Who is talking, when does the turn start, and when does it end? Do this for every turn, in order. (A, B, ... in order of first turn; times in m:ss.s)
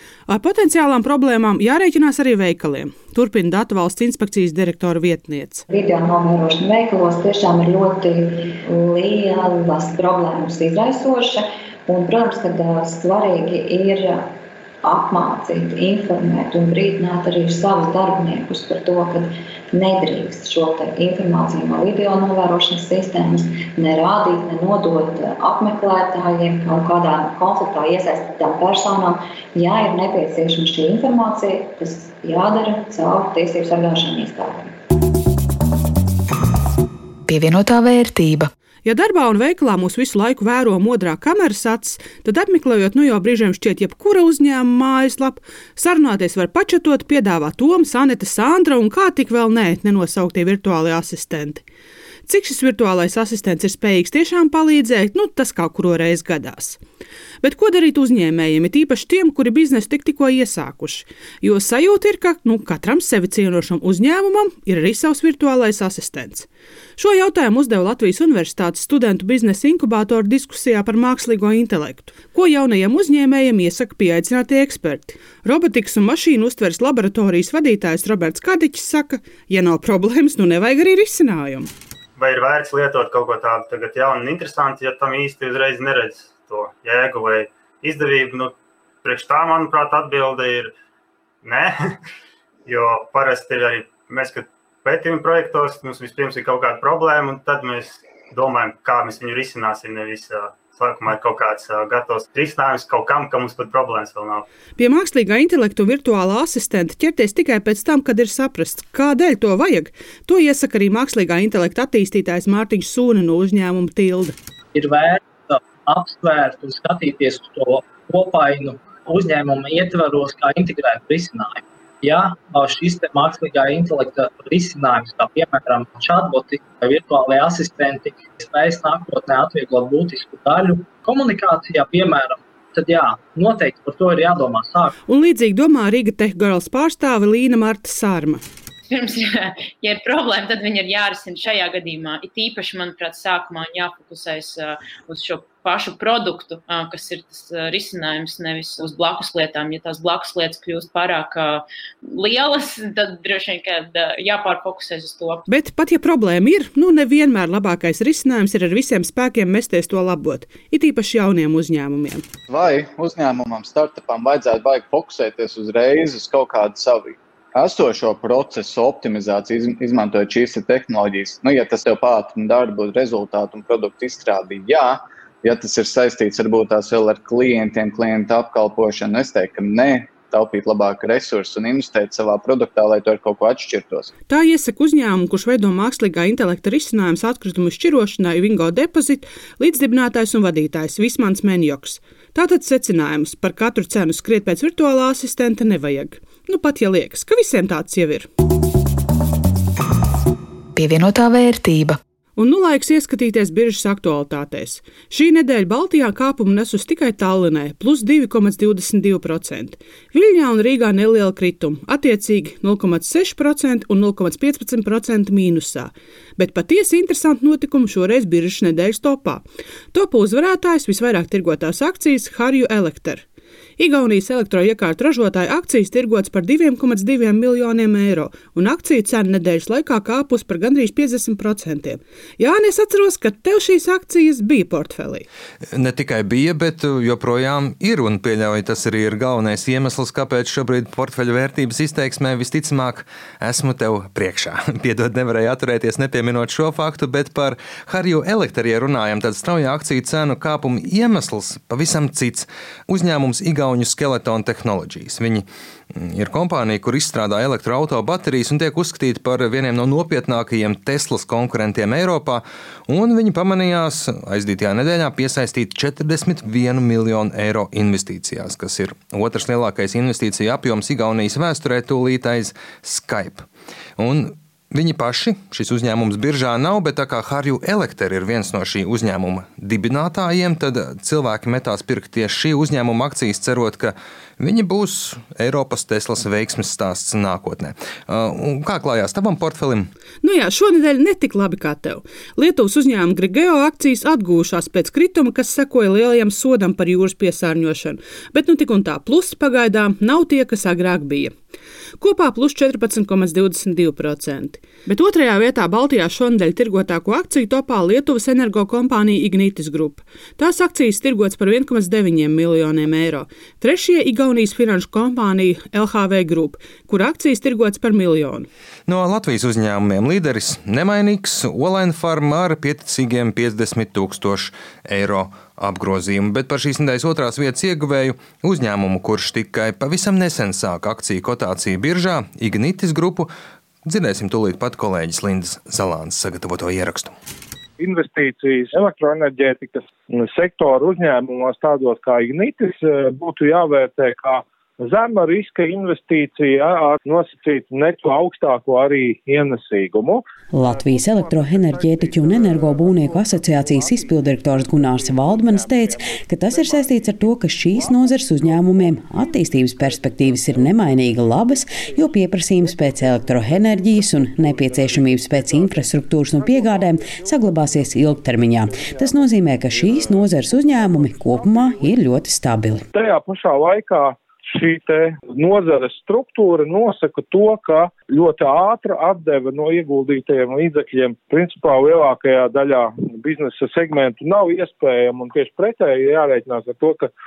0:00.3-0:05.6 A
0:05.7-0:14.2 B
0:14.8-0:34.7 B
0:37.4-0:38.4 C
0:38.8-0:51.6 A
0:52.2-0:56.8 A
0:57.4-1:21.7 A
1:22.2-1:30.7 D
1:31.4-1:31.8 D
1:32.6-1:44.4 D
1:44.8-1:54.3 A
1:54.7-2:14.9 E
2:15.1-2:18.4 A
2:18.9-2:35.4 F
2:35.5-2:42.3 A
2:42.5-3:04.1 G
3:04.3-3:18.3 A
3:20.8-3:21.9 C
3:22.4-3:43.2 A
3:43.8-3:55.2 A
3:55.7-4:33.4 H
4:34.0-4:49.9 H
4:50.2-5:01.3 A
5:02.0-5:18.5 A
5:18.9-5:33.3 H
5:33.8-5:37.2 H
5:37.8-6:12.0 I
5:50.5-6:12.8 J
6:12.9-6:27.1 I